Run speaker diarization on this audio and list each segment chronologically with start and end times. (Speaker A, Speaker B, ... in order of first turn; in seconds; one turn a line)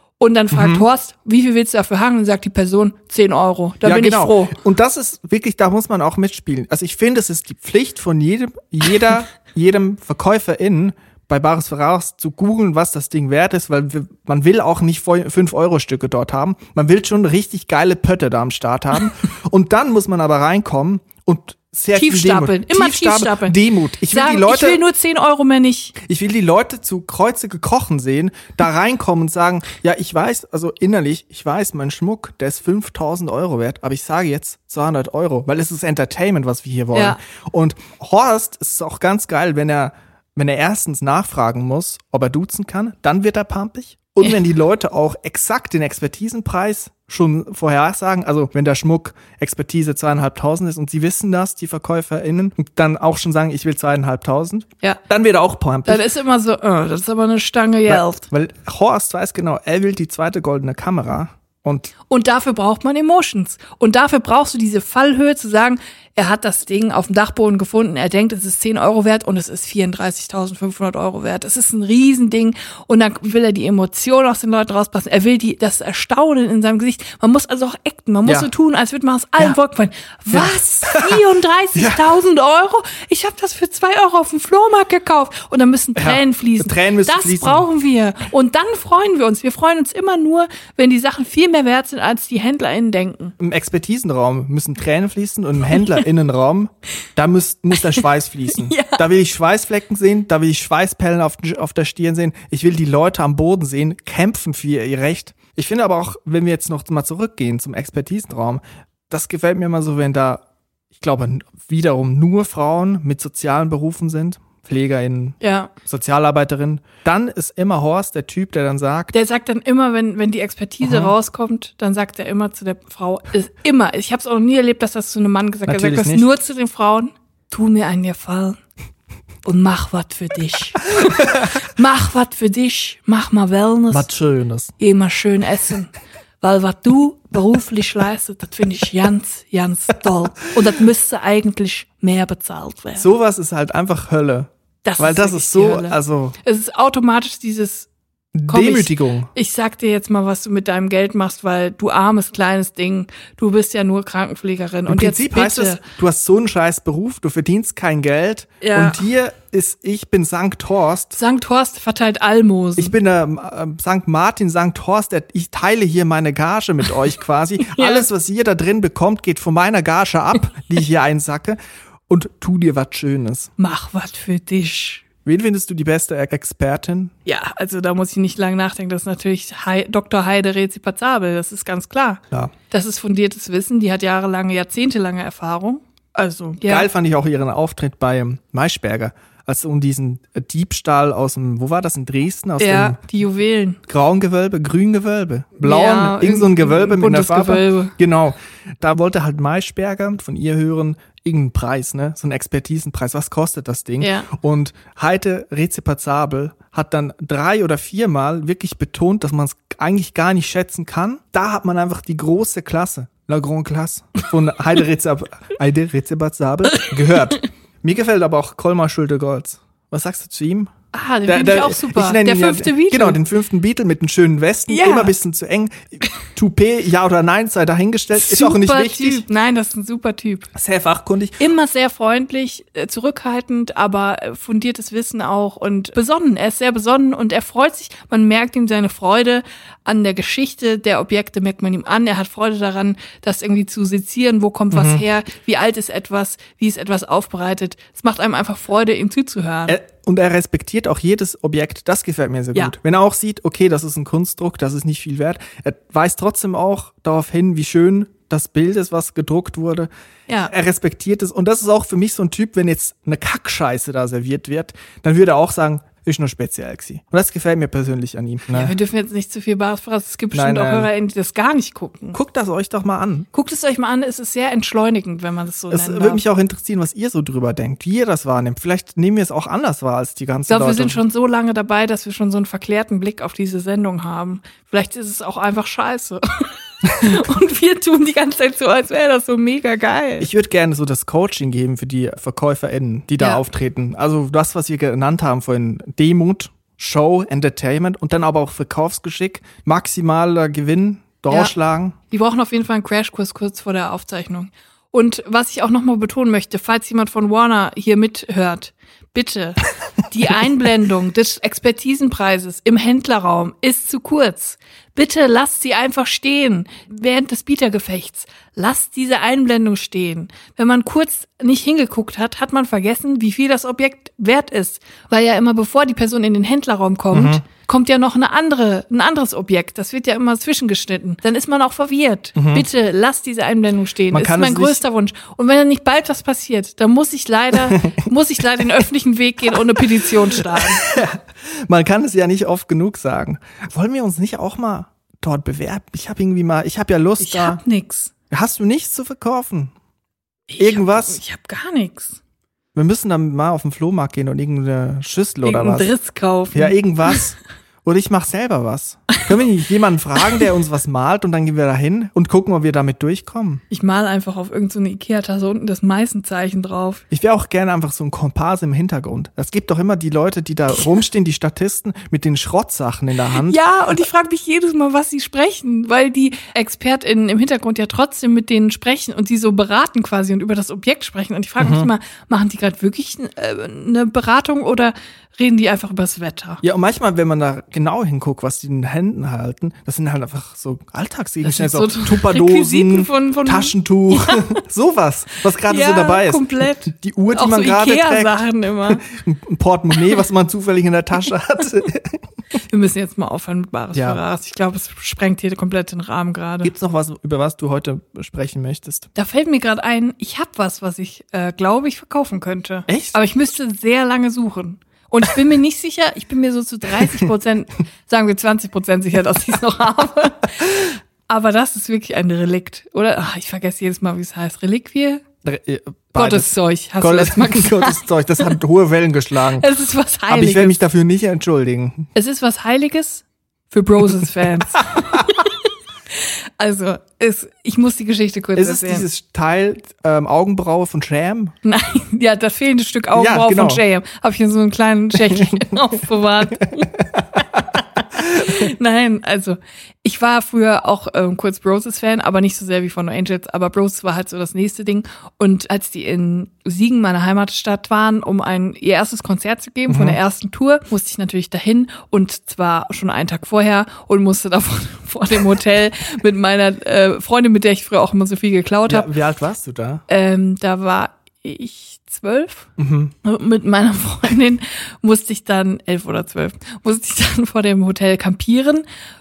Speaker A: 0.2-4.5
Speaker B: 0.5-0.8
Speaker B: 3.8-24.8
Speaker A: 21.9-23.6
Speaker A: 24.1-25.9
Speaker B: 26.0-56.0
Speaker A: 36.9-37.2
Speaker A: 55.9-58.2
Speaker B: 57.9-61.9
Speaker A: 62.1-93.3
Speaker B: 80.3-81.2
Speaker B: 81.7-82.0
Speaker B: 86.0-87.7
Speaker B: 93.4-110.4
Speaker A: 98.6-99.0
Speaker B: 110.9-119.1
Speaker A: 115.4-115.7
Speaker A: 119.1-128.6
Speaker B: 120.8-121.1
Speaker B: 125.7-126.2
Speaker A: 129.4-134.1
Speaker B: 133.9-134.7
Speaker A: 134.8-143.1
Speaker B: 143.0-146.3
Speaker A: 144.8-147.9
Speaker B: 148.3-149.3
Speaker A: 148.5-155.8
Speaker B: 154.9-161.2
Speaker A: 158.6-159.0
Speaker A: 161.1-162.9
Speaker B: 162.8-173.5
Speaker A: 167.7-168.1
Speaker A: 173.6-175.0
Speaker B: 175.2-177.1
Speaker A: 177.2-186.9
Speaker B: 186.6-193.0
Speaker A: 192.6-193.8
Speaker B: 193.9-220.7
Speaker A: 195.6-197.9
Speaker A: 204.0-204.3
Speaker A: 220.9-223.2
Speaker B: 221.2-229.2
Speaker A: 224.7-225.1
Speaker A: 228.1-230.5
Speaker B: 230.5-231.4
Speaker A: 231.4-249.8
Speaker B: 244.7-245.0
Speaker B: 249.7-259.9
Speaker B: 260.4-268.7
Speaker A: 268.5-272.2
Speaker B: 270.3-270.9
Speaker B: 272.1-273.3
Speaker A: 273.3-276.2
Speaker B: 275.7-281.0
Speaker A: 280.5-290.3
Speaker B: 290.2-301.9
Speaker A: 302.1-340.8
Speaker B: 327.1-327.4
Speaker B: 332.4-332.6
Speaker B: 334.1-334.8
Speaker B: 339.8-347.6
Speaker A: 347.2-348.1
Speaker B: 348.3-349.7
Speaker A: 350.5-352.2
Speaker B: 350.6-351.2
Speaker B: 352.7-355.9
Speaker A: 355.4-357.2
Speaker B: 356.5-363.6
Speaker A: 363.7-367.0
Speaker B: 367.1-373.6
Speaker A: 373.3-386.6
Speaker B: 381.6-381.9
Speaker B: 386.6-402.2
Speaker A: 391.4-394.4
Speaker A: 395.6-399.0
Speaker A: 402.7-406.7
Speaker B: 403.9-404.2
Speaker B: 406.6-409.1
Speaker A: 409.1-425.2
Speaker B: 412.9-413.2
Speaker B: 425.4-429.7
Speaker A: 426.1-428.0
Speaker A: 429.6-430.8
Speaker B: 430.3-432.1
Speaker A: 432.1-435.5
Speaker B: 434.7-435.4
Speaker A: 436.2-439.1
Speaker B: 438.6-441.5
Speaker A: 441.6-446.9
Speaker B: 443.1-443.8
Speaker B: 445.3-445.8
Speaker B: 446.6-447.6
Speaker A: 448.0-469.1
Speaker B: 448.2-448.7
Speaker B: 459.9-460.2
Speaker B: 468.9-470.0
Speaker A: 470.1-472.7
Speaker B: 472.8-473.1
Speaker A: 473.2-478.8